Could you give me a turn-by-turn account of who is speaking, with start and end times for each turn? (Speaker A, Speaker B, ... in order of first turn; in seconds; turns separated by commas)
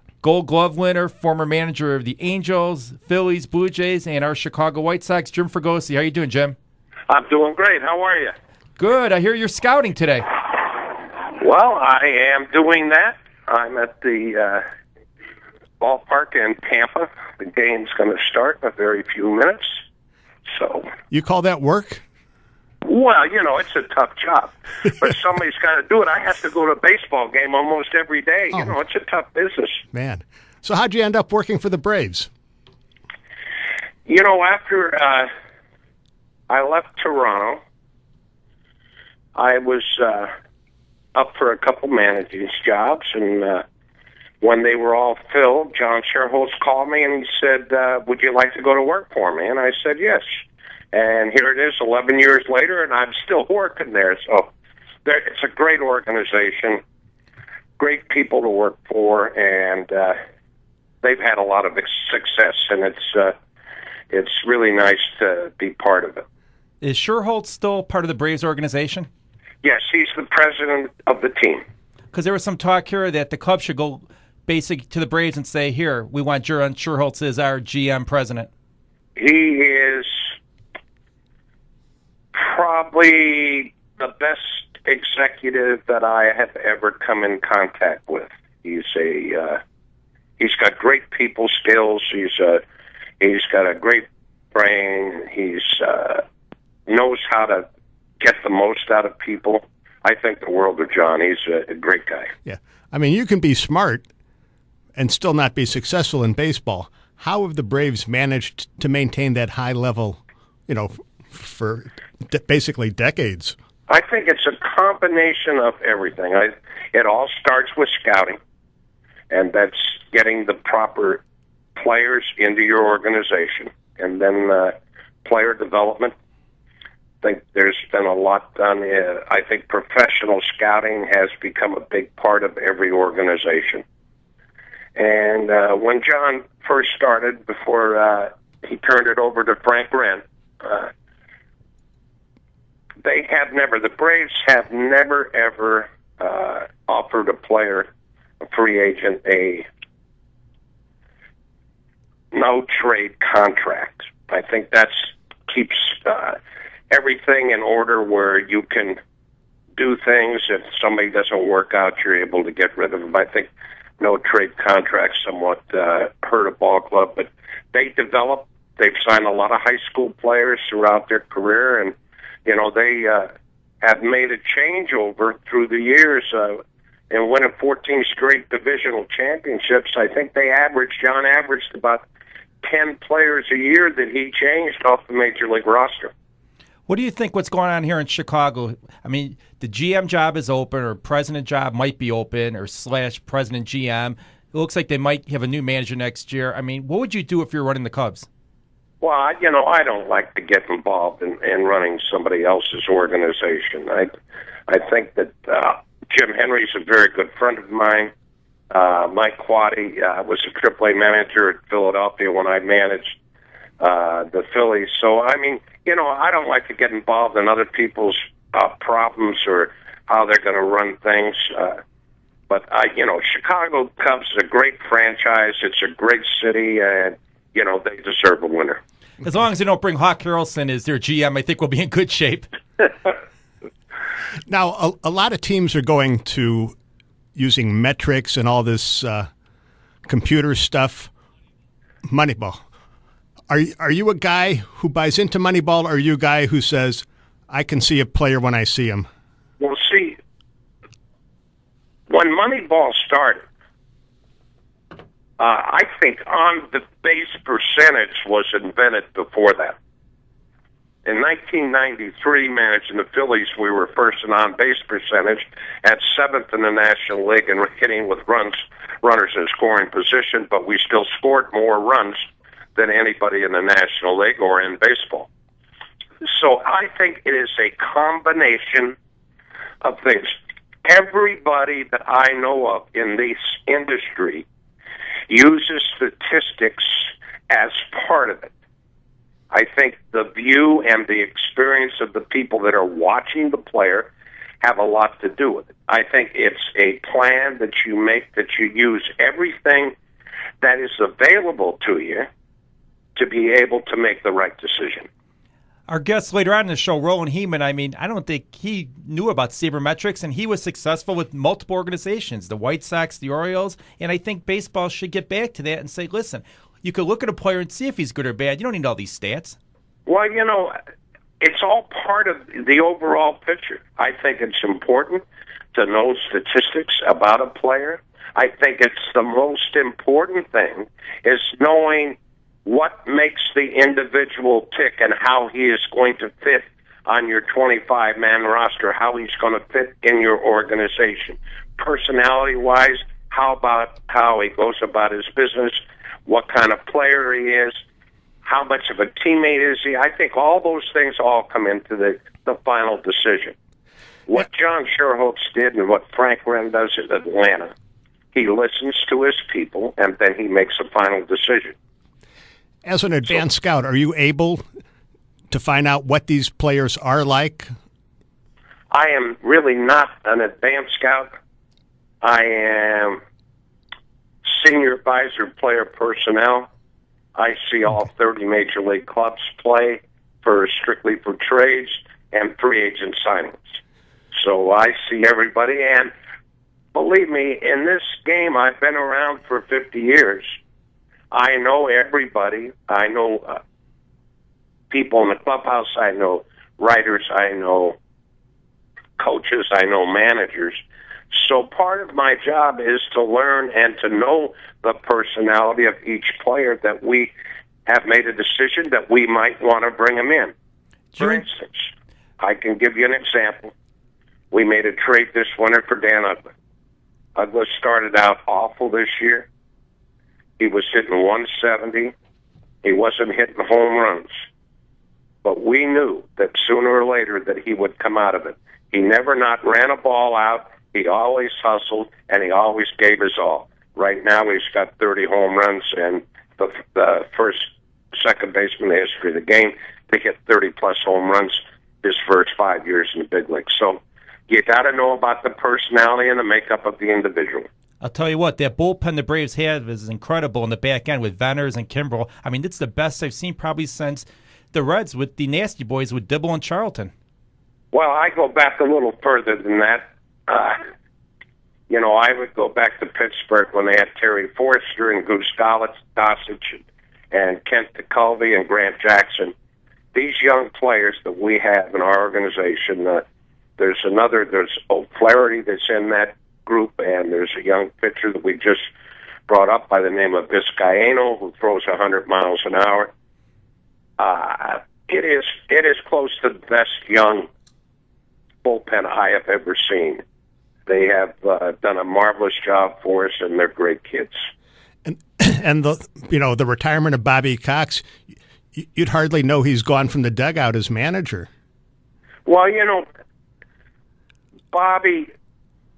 Speaker A: 0.2-6.5, Speaker B: 7.1-8.3, Speaker A: 8.8-10.4, Speaker B: 11.4-14.6, Speaker B: 15.8-19.8, Speaker B: 20.5-20.9, Speaker C: 21.1-22.0, Speaker B: 22.8-29.8, Speaker C: 29.9-32.3, Speaker B: 34.1-35.3, Speaker B: 36.5-37.6, Speaker B: 39.3-40.3, Speaker B: 41.1-43.6, Speaker B: 44.4-50.2, Speaker B: 50.9-54.5, Speaker B: 55.0-56.8, Speaker B: 57.8-60.1, Speaker B: 61.0-63.3, Speaker B: 64.1-66.2, Speaker A: 66.8-69.1, Speaker B: 69.6-71.6, Speaker A: 72.1-78.5, Speaker B: 79.2-80.3, Speaker B: 82.3-89.6, Speaker B: 90.4-92.6, Speaker B: 93.2-96.2, Speaker B: 96.9-97.6, Speaker B: 98.2-102.3, Speaker C: 102.4-104.0, Speaker C: 104.9-113.5, Speaker B: 113.9-118.4, Speaker B: 119.3-121.2, Speaker B: 121.8-124.7, Speaker B: 125.2-126.1, Speaker B: 127.2-133.8, Speaker B: 134.9-140.9, Speaker B: 143.0-147.9, Speaker B: 148.4-149.7, Speaker B: 152.3-156.4, Speaker B: 156.9-159.0, Speaker B: 159.8-171.9, Speaker B: 172.4-173.3, Speaker B: 173.8-182.1, Speaker B: 182.6-186.1, Speaker A: 186.9-198.3, Speaker B: 199.0-204.1, Speaker B: 204.7-208.1, Speaker B: 208.7-213.2, Speaker B: 213.8-221.8, Speaker B: 222.5-228.8, Speaker A: 229.2-232.5, Speaker C: 234.5-236.7, Speaker C: 237.3-239.3, Speaker C: 240.0-241.1, Speaker C: 242.1-242.6, Speaker C: 243.5-249.1, Speaker B: 249.6-250.2, Speaker B: 252.1-253.4, Speaker B: 255.4-259.8, Speaker B: 261.0-272.2, Speaker B: 272.8-275.3, Speaker B: 276.2-278.9, Speaker B: 279.8-284.4, Speaker B: 285.3-288.5, Speaker B: 289.5-294.1, Speaker B: 294.6-299.9, Speaker B: 300.6-302.3, Speaker B: 303.1-305.1, Speaker A: 305.9-319.6, Speaker B: 320.1-320.7, Speaker B: 321.4-325.2, Speaker B: 325.7-347.8, Speaker B: 348.4-353.5, Speaker B: 354.3-357.7, Speaker B: 358.3-361.7, Speaker C: 362.8-364.6, Speaker C: 365.5-367.7, Speaker B: 368.9-371.3, Speaker B: 372.2-373.2, Speaker B: 374.4-376.7, Speaker B: 377.3-383.8, Speaker B: 384.3-386.1, Speaker B: 386.9-390.5, Speaker B: 391.3-393.6, Speaker B: 394.9-398.0, Speaker B: 399.2-400.8, Speaker B: 401.3-407.3, Speaker B: 407.9-410.5, Speaker A: 411.1-411.4, Speaker B: 411.2-413.7, Speaker B: 414.5-416.5, Speaker B: 417.4-419.5, Speaker B: 420.6-422.1, Speaker B: 422.8-424.3, Speaker B: 425.4-447.7, Speaker A: 448.0-457.1, Speaker B: 457.9-460.8, Speaker B: 461.9-469.5, Speaker B: 470.1-473.2, Speaker B: 473.8-478.9, Speaker B: 479.5-483.1, Speaker B: 484.2-487.5, Speaker B: 488.6-490.2, Speaker B: 490.9-494.4, Speaker C: 495.0-498.1, Speaker C: 498.8-501.5, Speaker B: 502.4-503.0, Speaker B: 504.7-505.3